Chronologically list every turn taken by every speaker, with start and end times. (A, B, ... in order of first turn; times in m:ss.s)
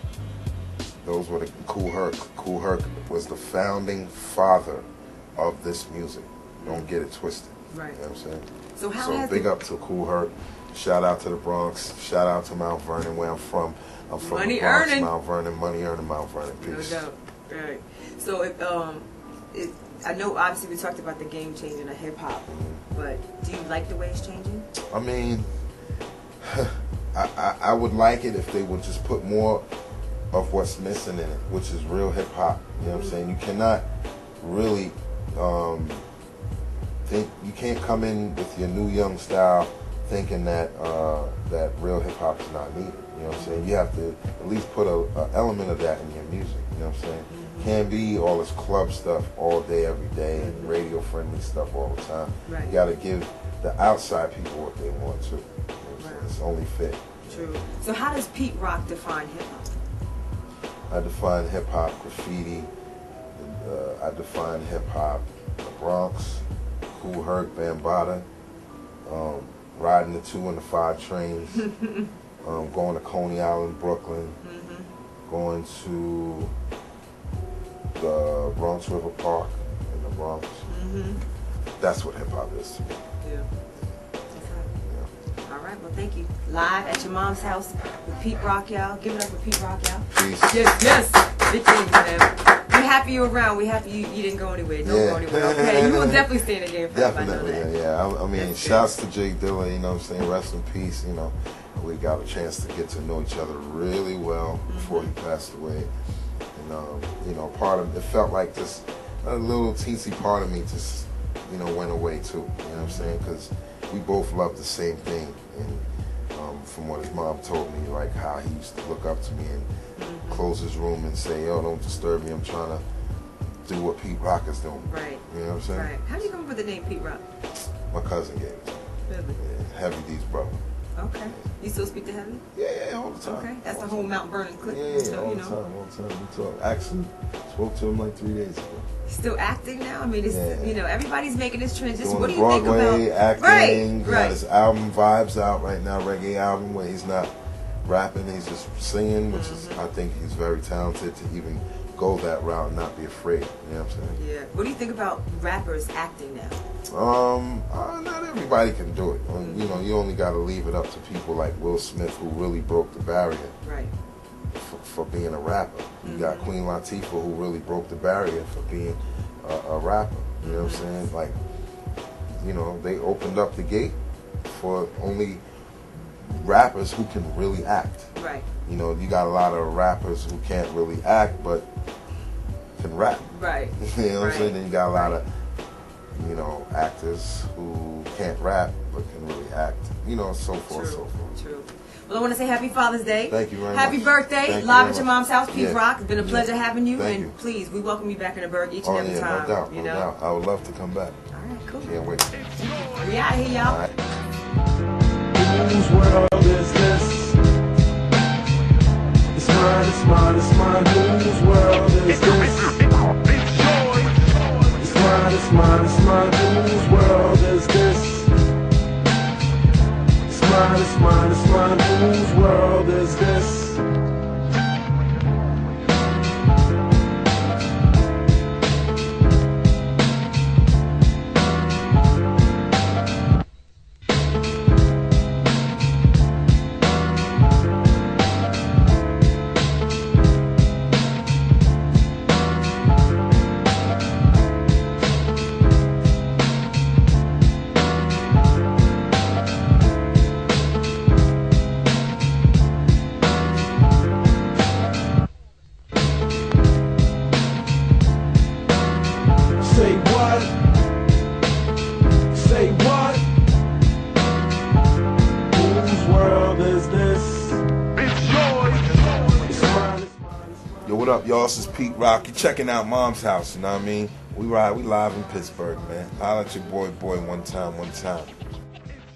0:01.0-0:17.1 A
0:06.6-0:06.9 B
0:07.7-0:08.0 B
0:08.8-0:09.5 B
0:14.2-0:15.1 B
0:16.6-0:24.7 B
0:22.5-0:22.8 A
0:24.9-0:25.5 A
0:26.4-0:29.7 A
0:30.3-0:33.8 A
0:32.9-0:33.2 B
0:34.4-0:36.0 A
0:37.1-0:57.5 A
0:43.3-0:43.7 B
0:47.3-0:47.8 B
0:50.4-0:50.8 B
0:52.5-0:52.8 B
0:56.0-0:56.3 B
0:57.3-0:59.8 B
1:00.9-1:02.7 A
1:03.4-1:08.3 A
1:09.0-1:11.7 A
1:11.6-1:12.1 B
1:12.4-1:14.4 A
1:14.4-1:14.9 B
1:15.3-1:16.5 A
1:18.0-1:20.7 A
1:20.7-1:21.2 B
1:21.8-1:23.0 A
1:23.2-1:23.5 B
1:24.3-1:24.7 B
1:24.8-1:25.1 A
1:25.5-1:37.7 B
1:30.1-1:30.7 A
1:34.8-1:36.3 A
1:36.9-1:45.9 A
1:38.3-1:38.9 B
1:44.7-1:45.1 B
1:46.5-1:59.7 A
1:52.8-1:53.2 B
2:00.0-2:00.5 B
2:00.3-2:02.8 A
2:03.7-2:05.9 A
2:04.9-2:07.2 B
2:07.9-2:10.6 A
2:09.1-2:09.4 B
2:11.0-2:12.4 B
2:12.6-2:18.9 A
2:13.2-2:15.6 B
2:19.1-2:24.4 B
2:20.3-2:20.8 A
2:22.0-2:27.3 A
2:27.8-2:34.2 A
2:29.3-2:29.8 B
2:34.1-2:36.6 B
2:36.9-2:43.5 A
2:39.4-2:39.9 B
2:43.6-2:43.9 B
2:44.5-2:51.4 A
2:46.0-2:46.5 B
2:50.4-2:50.9 B
2:52.4-2:55.4 A
2:56.2-2:58.1 A
2:58.1-2:58.5 B
2:58.7-3:01.7 A
3:02.8-3:05.2 A
3:03.3-3:05.2 B
3:06.1-3:11.4 A
3:10.7-3:20.1 B
3:13.3-3:17.4 A
3:18.8-3:21.2 A
3:21.3-3:21.9 B
3:21.8-3:22.4 A
3:22.8-3:23.8 B
3:23.6-3:24.0 A
3:25.3-3:27.4 C
3:29.3-3:38.3 C
3:40.3-3:43.8 C
4:19.6-4:20.7 C
4:22.3-4:23.3 C
4:25.5-4:30.9 C
4:30.8-4:38.4 A